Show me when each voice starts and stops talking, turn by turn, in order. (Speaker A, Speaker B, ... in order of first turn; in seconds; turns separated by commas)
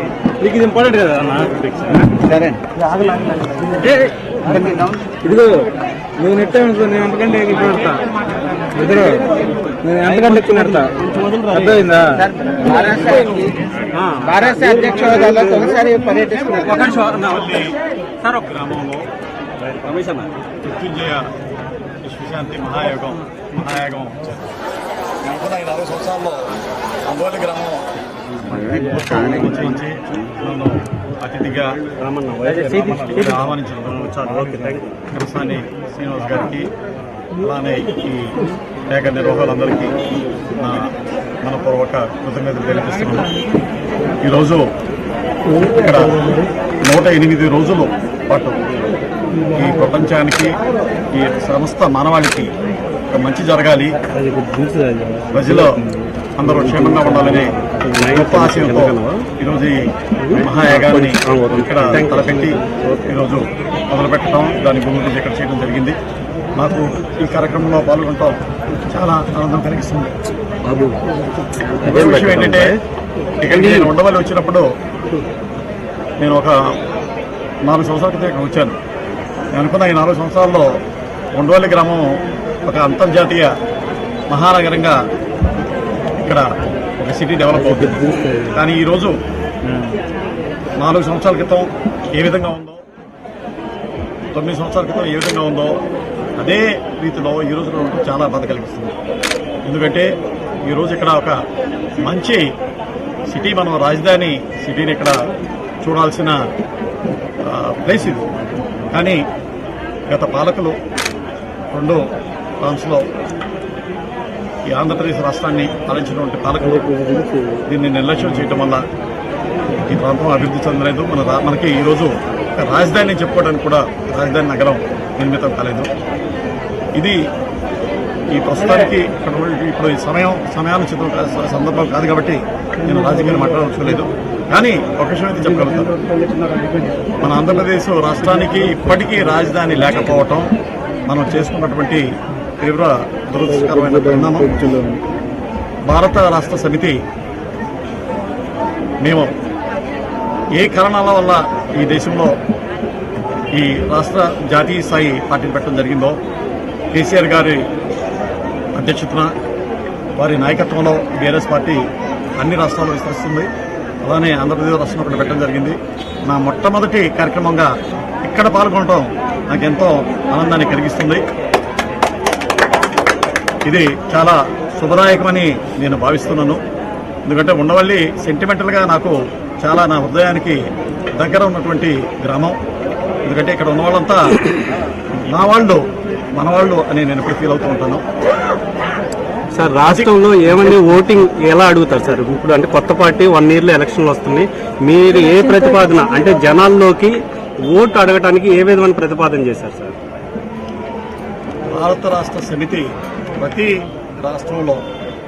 Speaker A: 0.4-2.1, Speaker B: 0.4-2.1, Speaker C: 2.1-2.6, Speaker B: 2.9-8.0, Speaker C: 4.5-5.1, Speaker B: 8.7-10.9, Speaker A: 10.0-11.9, Speaker B: 11.5-13.3, Speaker C: 12.1-13.6, Speaker A: 13.9-15.7, Speaker C: 14.2-16.9, Speaker B: 14.6-16.7, Speaker A: 16.6-17.7, Speaker D: 16.8-17.8, Speaker A: 18.2-18.6, Speaker D: 18.3-19.1, Speaker A: 19.6-20.3, Speaker D: 20.6-21.3, Speaker D: 22.0-24.4, Speaker D: 25.2-27.9, Speaker D: 28.4-31.7, Speaker C: 28.5-29.5, Speaker A: 32.0-35.0, Speaker B: 32.5-33.1, Speaker D: 32.8-36.7, Speaker D: 37.4-38.3, Speaker D: 38.9-40.0, Speaker D: 40.6-40.8, Speaker D: 41.4-43.4, Speaker D: 44.2-44.6, Speaker B: 45.5-46.5, Speaker D: 45.6-46.2, Speaker D: 46.8-48.6, Speaker D: 49.5-50.5, Speaker D: 51.1-52.5, Speaker D: 53.1-54.0, Speaker B: 54.0-58.5, Speaker D: 55.3-55.7, Speaker D: 56.4-57.5, Speaker A: 58.0-59.2, Speaker D: 58.1-59.8, Speaker A: 60.2-63.2, Speaker D: 60.3-66.0, Speaker D: 66.5-68.4, Speaker D: 68.9-70.1, Speaker A: 70.7-70.9, Speaker A: 71.8-72.8, Speaker D: 71.8-72.7, Speaker D: 73.4-74.7, Speaker A: 73.5-73.9, Speaker D: 76.2-76.6, Speaker D: 77.7-78.8, Speaker D: 79.5-80.7, Speaker D: 81.4-82.0, Speaker D: 82.7-83.5, Speaker D: 84.3-85.0, Speaker D: 87.0-89.1, Speaker B: 87.5-88.6, Speaker B: 89.7-90.0, Speaker D: 90.8-92.8, Speaker D: 94.3-95.7, Speaker D: 96.4-99.0, Speaker D: 99.7-100.1, Speaker D: 100.7-101.4, Speaker D: 102.0-102.4, Speaker D: 103.3-105.2, Speaker D: 105.8-106.4, Speaker D: 107.5-108.3, Speaker D: 108.9-109.2, Speaker D: 110.1-110.8, Speaker D: 111.7-112.0, Speaker D: 112.6-113.0, Speaker D: 114.7-116.8, Speaker B: 116.6-117.6, Speaker D: 117.7-118.8, Speaker D: 119.9-125.9, Speaker D: 128.3-136.0, Speaker B: 132.8-134.0, Speaker B: 135.4-137.6, Speaker D: 137.2-140.5, Speaker B: 138.2-140.2, Speaker D: 141.1-142.1, Speaker D: 142.6-144.6, Speaker B: 143.4-145.0, Speaker D: 145.9-146.9, Speaker D: 149.0-149.3, Speaker D: 150.6-152.3, Speaker D: 153.5-156.2, Speaker D: 156.9-157.6, Speaker D: 158.8-159.3, Speaker D: 160.2-161.8, Speaker D: 162.4-163.5, Speaker D: 164.0-165.8, Speaker D: 166.3-167.7, Speaker D: 168.2-171.2, Speaker D: 173.7-176.6, Speaker D: 177.3-180.6, Speaker D: 181.2-182.6, Speaker D: 183.2-184.3, Speaker D: 185.2-185.8, Speaker D: 186.4-188.0, Speaker A: 189.5-197.2, Speaker D: 189.8-190.1, Speaker A: 197.7-199.9, Speaker D: 201.7-204.8